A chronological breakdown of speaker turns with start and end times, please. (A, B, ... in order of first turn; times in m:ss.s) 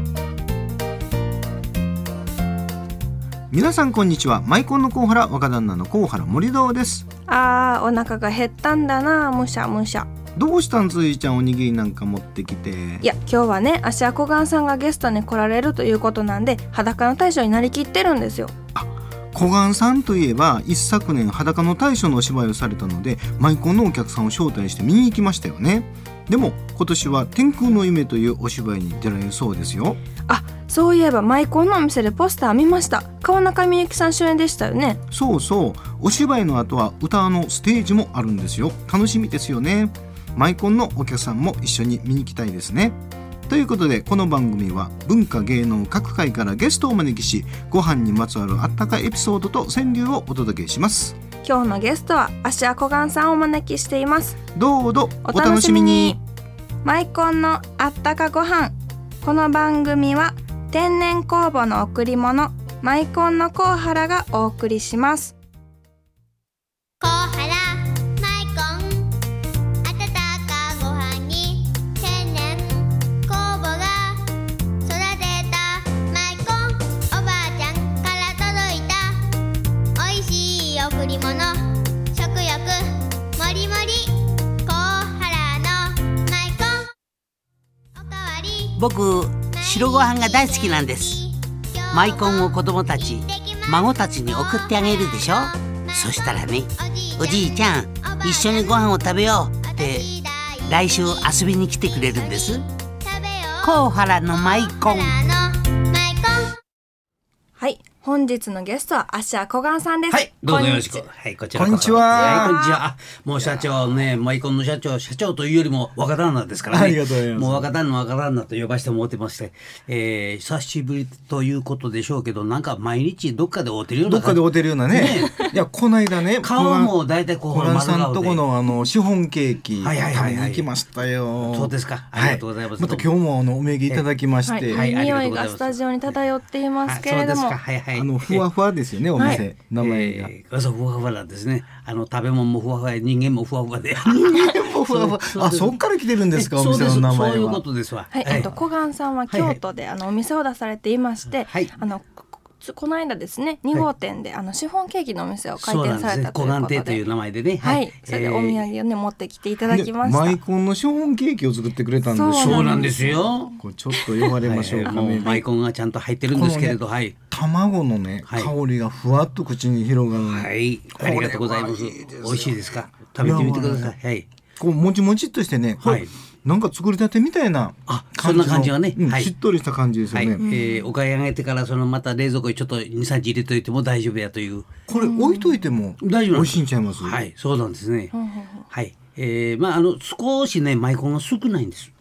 0:03.5-0:07.0 A
0:07.3-0:10.1 B
0:10.4-0:13.1 A
0:13.0-0:18.5 B
0:18.8-0:30.0 A
0:30.3-0:35.0 B
0:35.1-0:51.2 A
0:51.4-0:54.4 B
0:54.6-0:56.2 A
0:55.2-0:56.2 B
0:56.8-1:05.3 B
1:07.0-1:09.2 C
1:09.8-1:14.3 C
1:14.8-1:19.2 C
1:20.0-1:26.9 C
1:28.0-1:28.8 C
1:28.8-1:31.2 D
1:29.5-1:41.3 C
1:32.0-1:40.1 D
1:40.7-1:42.6 D
1:41.9-1:46.6 C
1:43.6-1:45.2 D
1:47.6-1:51.0 B
1:50.1-2:05.5 E
1:51.5-1:52.6 A
1:52.1-1:52.8 B
1:56.7-1:57.7 A
2:04.0-2:14.8 A
2:06.4-2:08.4 E
2:09.8-2:10.7 E
2:11.5-2:13.1 E
2:14.5-2:17.6 B
2:14.7-2:16.2 E
2:16.8-2:18.5 E
2:18.0-2:20.3 A
2:19.2-2:28.6 E
2:19.2-2:19.4 B
2:24.1-2:27.6 A
2:28.1-2:37.0 B
2:29.3-2:29.6 E
2:31.3-2:31.8 E
2:35.6-2:38.7 E
2:37.6-2:40.4 B
2:39.7-2:42.9 A
2:42.0-2:44.3 B
2:42.3-2:43.6 E
2:43.6-2:45.4 A
2:44.4-2:47.2 E
2:44.9-2:45.4 B
2:46.3-2:52.6 A
2:48.3-2:48.5 E
2:50.2-2:54.3 E
2:53.2-2:54.0 A
2:54.6-3:00.5 A
2:55.8-2:56.1 E
2:57.9-2:59.3 E
3:00.1-3:04.7 E
3:00.5-3:00.8 B
3:04.9-3:07.2 A
3:04.9-3:05.7 B
3:06.0-3:08.1 E
3:08.1-3:08.7 B
3:08.7-3:11.9 E